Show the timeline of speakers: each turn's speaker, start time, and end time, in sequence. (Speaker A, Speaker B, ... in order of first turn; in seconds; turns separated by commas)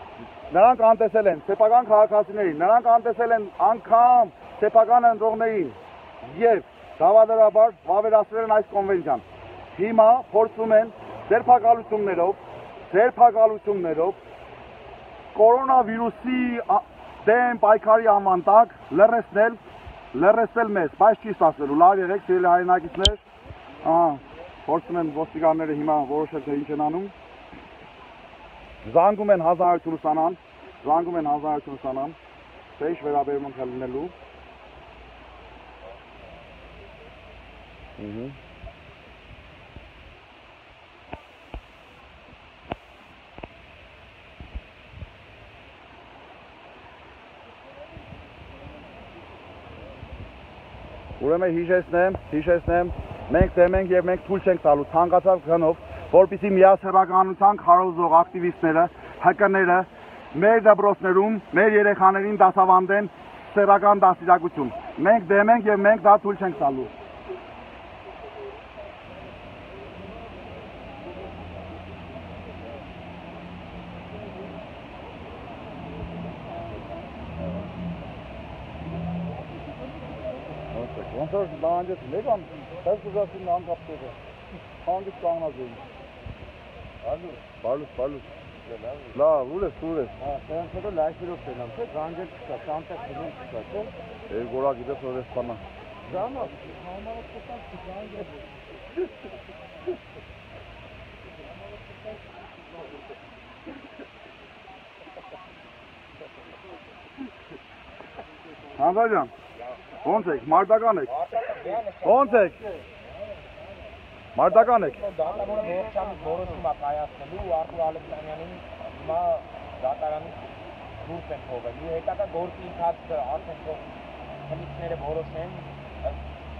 Speaker A: 0.5-9.2, Speaker A: 9.8-12.4, Speaker A: 12.9-14.2, Speaker A: 15.3-19.6, Speaker A: 20.1-23.2, Speaker A: 23.8-27.1, Speaker A: 28.9-32.2, Speaker A: 32.8-34.1, Speaker A: 38.0-38.4, Speaker A: 51.2-66.9, Speaker A: 80.7-84.2, Speaker A: 84.8-85.8, Speaker B: 87.0-87.4, Speaker A: 87.6-88.3, Speaker B: 88.7-89.2, Speaker A: 89.1-90.1, Speaker B: 90.2-93.9, Speaker A: 94.3-95.6, Speaker B: 96.1-96.6, Speaker A: 108.8-109.3, Speaker A: 110.0-111.1, Speaker C: 111.1-112.6, Speaker A: 112.0-112.6, Speaker A: 114.4-115.0, Speaker C: 114.5-120.4, Speaker C: 121.0-123.9, Speaker C: 124.5-126.2